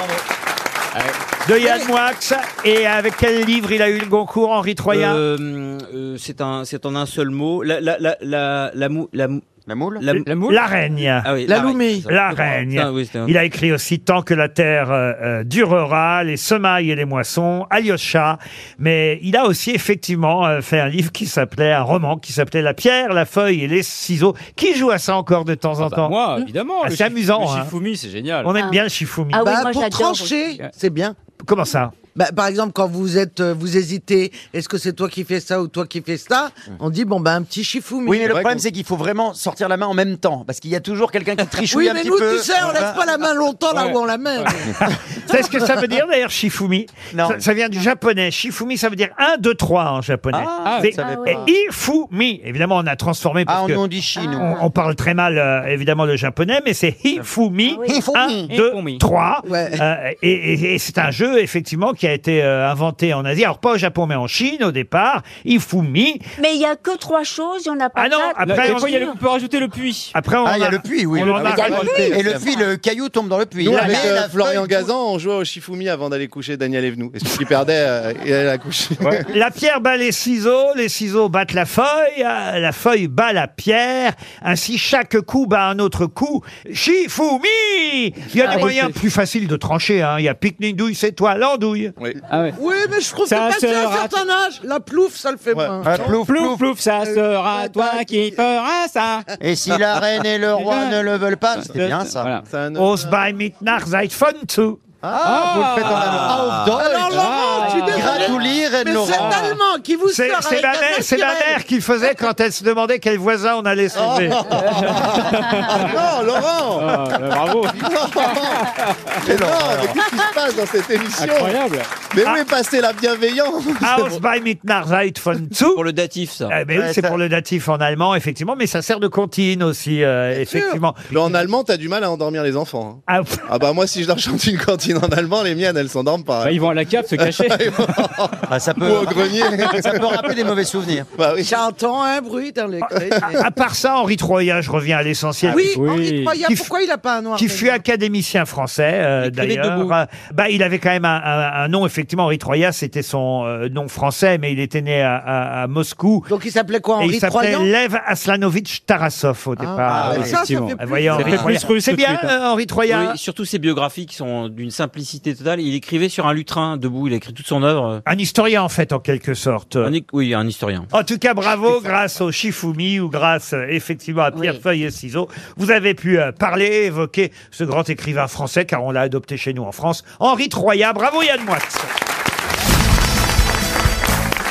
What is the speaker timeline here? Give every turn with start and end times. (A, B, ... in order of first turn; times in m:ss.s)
0:01.4-0:05.2 A
0:04.9-0:09.4 B
0:09.7-0:10.0 C
0:10.0-0:10.3 B
0:10.1-0:11.3 A
0:10.2-0:10.6 D
0:11.2-0:13.3 B
0:11.5-0:12.1 E
0:12.1-0:26.2 A
0:25.8-0:28.5 D
0:26.8-0:27.7 A
0:28.4-0:29.4 A
0:29.3-0:30.5 F
0:29.4-0:31.1 E
0:31.4-0:31.9 A
0:32.1-0:38.3 E
0:38.0-0:43.0 C
0:38.2-0:38.6 G
0:41.7-0:44.7 E
0:43.7-0:44.7 D
0:44.8-0:53.8 A
0:47.1-0:47.4 C
0:50.3-0:51.5 C
0:50.6-0:51.0 D
0:51.0-0:51.4 F
0:53.5-0:54.5 C
0:54.2-0:54.6 F
0:54.3-1:06.2 A
0:57.7-0:58.0 F
0:57.9-0:58.5 C
0:58.5-0:59.0 D
0:59.4-0:59.8 E
1:06.4-1:09.2 F
1:07.9-1:09.1 A
1:08.4-1:10.1 D
1:10.1-1:12.2 A
1:10.4-1:14.9 C
1:11.2-1:12.1 D
1:11.4-1:12.6 F
1:11.9-1:12.4 G
1:13.6-1:19.2 G
1:19.3-1:31.9 A
1:28.4-1:28.9 D
1:32.3-1:32.6 D
1:32.6-1:36.1 E
1:33.2-1:34.2 D
1:35.5-1:36.0 G
1:35.8-1:36.6 C
1:35.9-1:39.3 D
1:37.0-1:38.4 E
1:39.4-1:42.3 C
1:40.5-1:42.4 D
1:42.4-1:43.1 G
1:42.8-1:44.8 A
1:45.0-1:49.5 C
1:45.2-1:48.4 D
1:46.8-1:51.6 E
1:49.0-1:49.6 D
1:50.1-1:54.7 A
1:53.9-1:57.2 G
1:54.5-1:56.0 D
1:56.7-1:59.2 D
1:57.7-2:01.6 G
1:59.2-2:00.0 C
2:01.2-2:01.9 D
2:02.1-2:04.2 G
2:03.8-2:05.8 A
2:05.8-2:06.5 B
2:06.5-2:11.2 A
2:06.7-2:07.2 C
2:10.4-2:10.8 E
2:11.1-2:20.3 G
2:13.1-2:13.5 A
2:16.4-2:17.8 D
2:18.5-2:21.1 C
2:21.1-2:21.6 G
2:21.4-2:23.4 E
2:22.8-2:25.8 A
2:25.5-2:27.8 E
2:25.7-2:26.4 D
2:26.4-2:26.7 A
2:27.4-2:36.3 A
2:29.2-2:29.9 B
2:36.3-2:37.7 E
2:37.0-2:43.2 A
2:39.7-2:41.4 E
2:39.8-2:40.5 C
2:39.9-2:42.3 D
2:41.1-2:41.5 B
2:42.9-2:48.0 B
2:48.0-2:49.9 A
2:49.8-2:50.9 B
2:50.9-3:01.9 A
2:54.3-2:54.6 F